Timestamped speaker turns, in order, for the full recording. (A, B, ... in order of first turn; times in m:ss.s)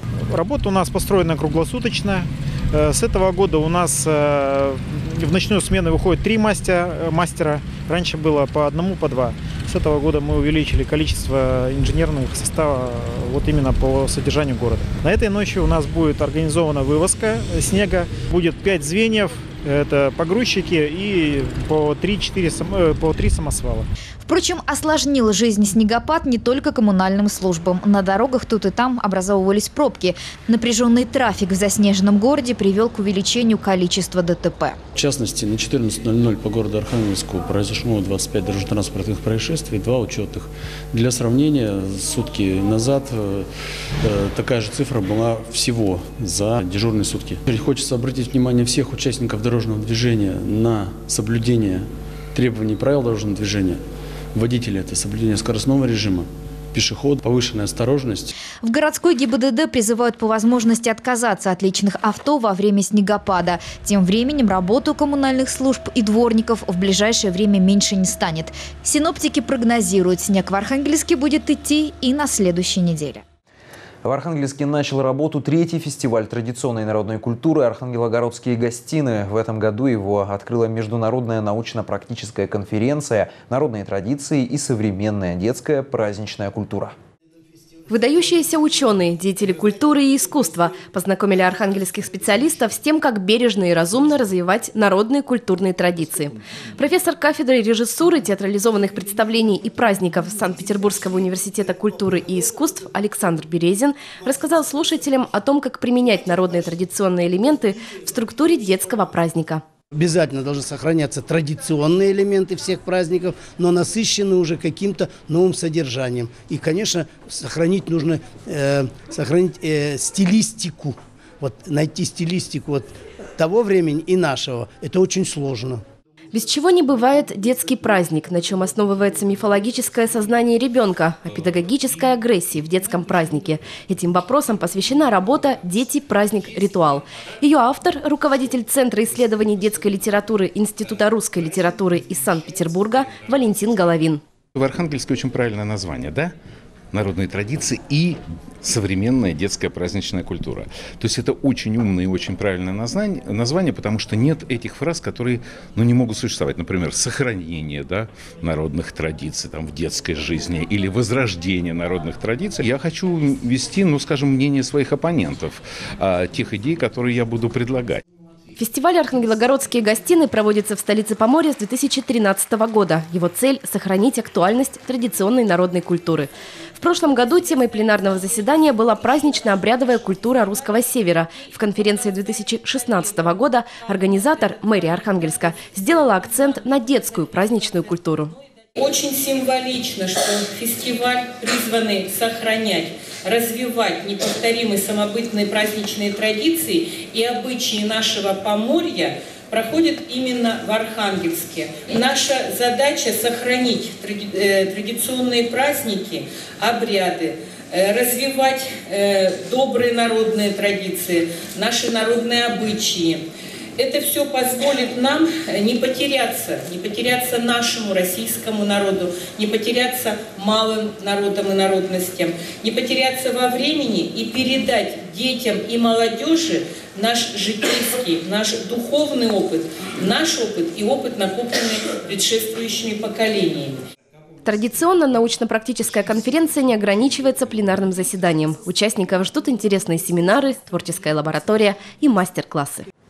0:00.3-0:23.8 A
0:24.2-0:34.8 B
0:34.9-0:43.5 C
0:44.0-0:53.8 C
0:54.3-0:58.3 C
0:58.6-1:13.2 B
1:14.0-1:26.9 D
1:27.9-1:49.6 E
1:50.0-2:05.8 F
1:52.1-1:52.8 C
1:54.2-1:55.0 C
1:55.6-1:57.8 C
2:03.7-2:05.5 C
2:06.3-2:24.2 E
2:24.5-2:26.3 G
2:26.9-2:48.0 G
2:48.6-3:08.3 E
3:08.8-3:33.2 H
3:33.8-3:53.8 H
3:54.4-4:02.9 E